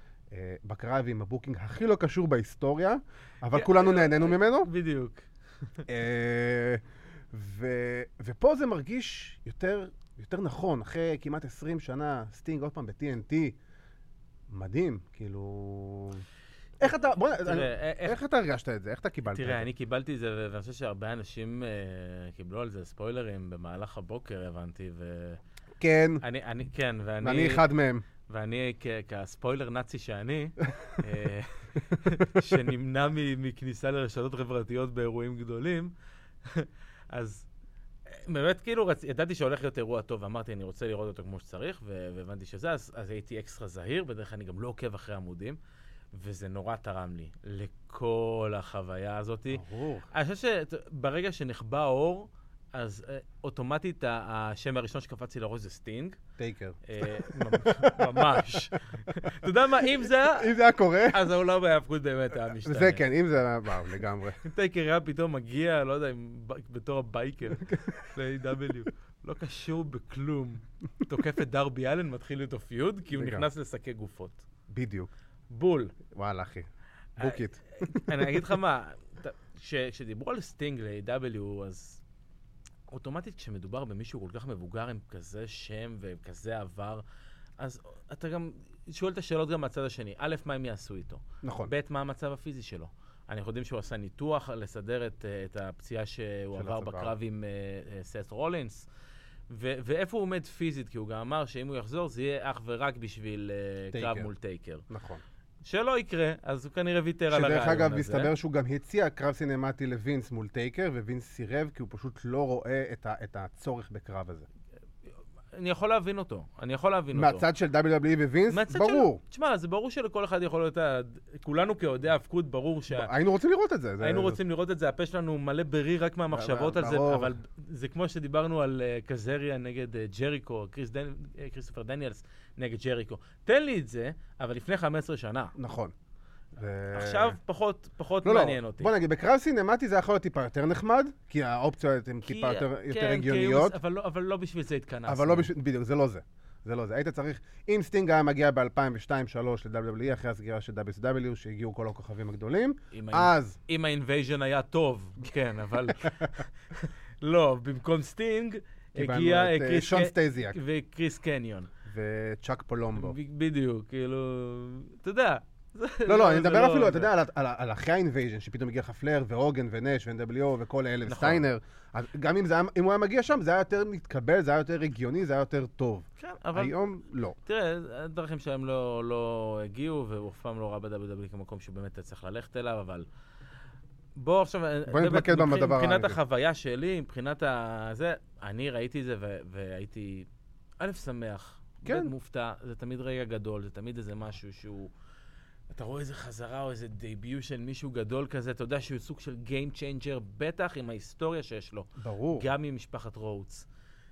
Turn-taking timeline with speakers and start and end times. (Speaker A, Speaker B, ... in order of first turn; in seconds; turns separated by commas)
Speaker A: 0.3-4.7, Speaker B: 3.5-5.8, Speaker A: 5.9-13.6, Speaker A: 14.5-16.2, Speaker A: 16.8-19.7, Speaker B: 16.8-18.2, Speaker B: 19.3-25.4, Speaker A: 25.8-26.2, Speaker B: 26.2-27.7, Speaker A: 27.2-28.0, Speaker B: 28.3-35.9, Speaker B: 36.5-37.5, Speaker B: 38.1-45.6, Speaker B: 46.1-56.2, Speaker A: 49.5-50.1, Speaker A: 56.4-59.4, Speaker B: 56.9-60.5, Speaker A: 60.0-61.3, Speaker B: 61.1-63.1, Speaker A: 62.6-64.4, Speaker B: 64.4-74.5, Speaker A: 67.7-68.1, Speaker A: 73.1-73.5, Speaker A: 74.7-75.1, Speaker B: 75.5-76.0, Speaker A: 76.1-78.5, Speaker B: 77.2-82.0, Speaker B: 82.9-87.0, Speaker B: 87.6-98.9, Speaker A: 91.4-91.7, Speaker A: 96.5-97.1, Speaker B: 99.5-104.8, Speaker A: 103.9-104.3, Speaker A: 104.9-105.2, Speaker B: 105.7-108.3, Speaker A: 107.3-114.5, Speaker B: 115.5-117.5, Speaker A: 117.1-119.2, Speaker B: 118.5-123.1, Speaker A: 122.9-124.4, Speaker B: 124.0-135.5, Speaker A: 126.3-127.3, Speaker A: 135.6-135.9, Speaker A: 136.6-137.4, Speaker B: 136.9-138.9, Speaker A: 138.2-143.8, Speaker B: 142.2-145.5, Speaker A: 145.1-153.6, Speaker B: 152.9-161.7, Speaker A: 155.9-156.4, Speaker A: 159.0-160.6, Speaker A: 161.9-163.2, Speaker B: 162.9-167.1, Speaker A: 166.1-177.3, Speaker B: 171.1-171.5, Speaker B: 176.2-176.9, Speaker B: 177.4-183.1, Speaker B: 184.2-190.3, Speaker A: 184.9-186.2, Speaker B: 190.8-194.9, Speaker A: 191.8-192.1, Speaker B: 195.7-203.7, Speaker A: 202.0-202.5